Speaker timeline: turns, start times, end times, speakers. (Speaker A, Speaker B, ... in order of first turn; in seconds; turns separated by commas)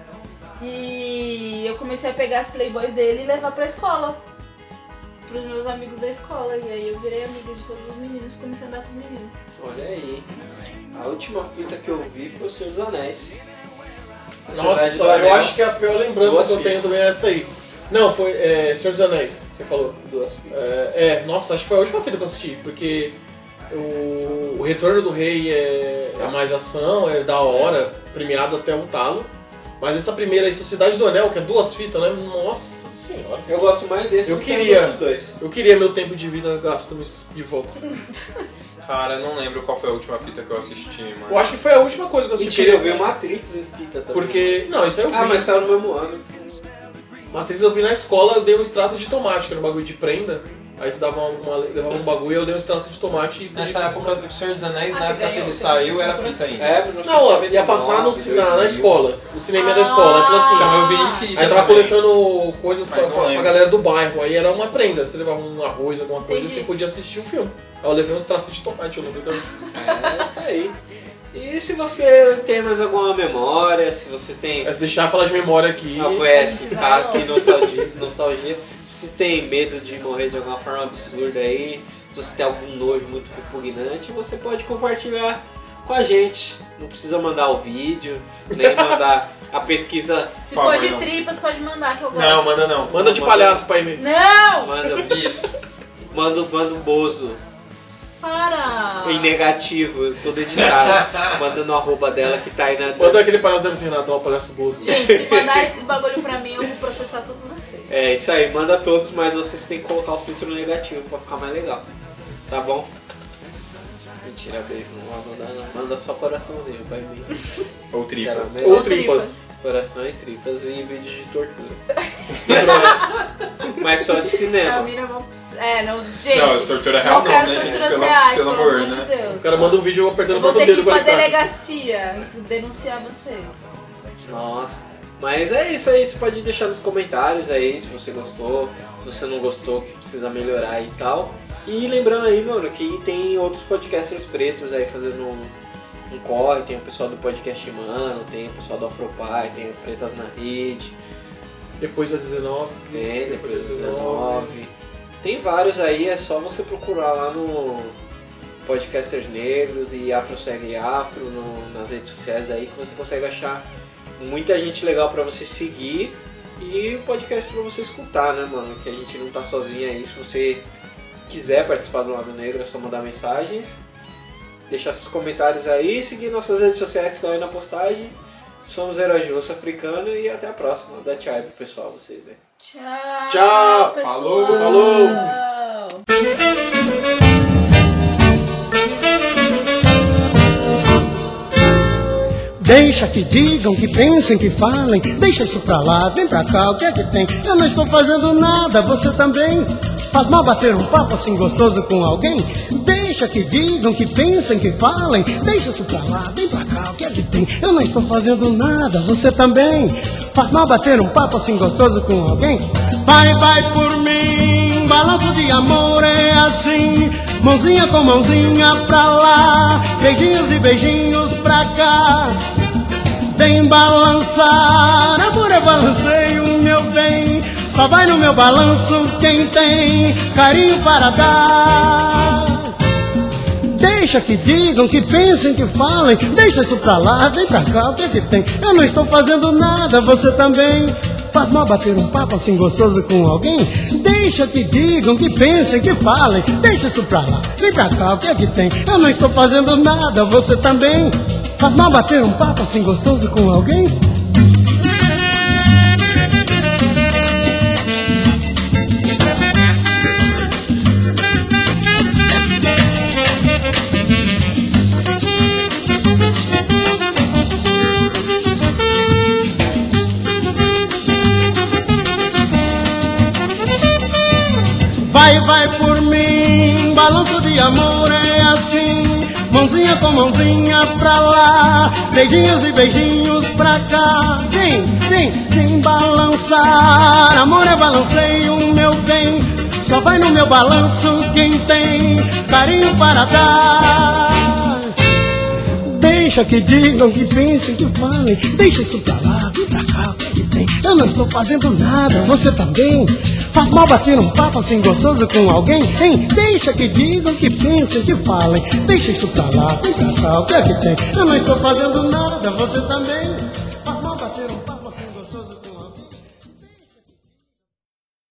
Speaker A: 0.6-4.2, Speaker A: 5.2-9.4, Speaker B: 9.6-10.3, Speaker B: 10.9-13.4, Speaker B: 14.3-15.6, Speaker C: 14.5-20.0, Speaker B: 16.2-16.8, Speaker B: 20.0-20.6, Speaker C: 20.5-23.1, Speaker C: 23.7-33.5, Speaker B: 26.2-26.6, Speaker D: 27.5-27.8, Speaker B: 33.5-35.4, Speaker C: 34.2-37.8, Speaker D: 38.8-41.5, Speaker C: 41.3-43.1, Speaker B: 42.4-46.2, Speaker C: 44.1-45.5, Speaker C: 47.3-54.2, Speaker D: 53.5-56.8, Speaker A: 54.9-56.5, Speaker B: 56.6-59.0, Speaker C: 57.0-69.4, Speaker A: 59.5-61.6, Speaker D: 60.5-62.2, Speaker D: 62.9-63.7, Speaker A: 66.2-66.7, Speaker B: 69.7-70.7, Speaker B: 71.3-74.7, Speaker C: 74.6-76.4, Speaker B: 76.0-90.4, Speaker A: 76.3-77.6, Speaker C: 77.2-77.6, Speaker C: 88.6-88.9, Speaker A: 90.5-92.7, Speaker D: 90.5-91.1, Speaker D: 92.1-93.0, Speaker B: 92.9-93.7, Speaker C: 92.9-94.0, Speaker A: 93.9-94.7, Speaker B: 94.6-95.2, Speaker D: 95.0-95.5, Speaker B: 96.1-97.4, Speaker A: 98.2-99.3, Speaker B: 99.0-103.3, Speaker D: 100.5-101.5, Speaker C: 103.0-105.1, Speaker B: 104.8-105.7, Speaker A: 104.8-107.9, Speaker B: 107.9-111.8, Speaker B: 112.5-112.9, Speaker B: 114.2-117.4, Speaker D: 117.9-118.7, Speaker B: 118.2-119.0, Speaker C: 118.6-119.4, Speaker A: 118.6-119.4, Speaker B: 119.6-121.8, Speaker D: 122.3-123.1, Speaker C: 122.5-123.1, Speaker A: 122.5-123.1, Speaker B: 122.5-122.8, Speaker B: 123.8-124.9, Speaker A: 124.6-133.7, Speaker D: 126.3-129.1, Speaker B: 127.5-128.1, Speaker C: 129.4-131.5, Speaker B: 134.2-145.5, Speaker B: 146.1-150.9, Speaker C: 151.8-154.6, Speaker B: 152.9-157.9, Speaker B: 158.6-170.7, Speaker B: 171.3-173.8, Speaker B: 174.7-182.4, Speaker A: 182.6-186.0, Speaker C: 183.3-183.9, Speaker D: 184.0-185.3, Speaker C: 184.5-185.3, Speaker E: 192.6-222.4, Speaker E: 223.3-232.7, Speaker E: 233.7-253.9, Speaker E: 275.0-294.9, Speaker E: 295.8-316.1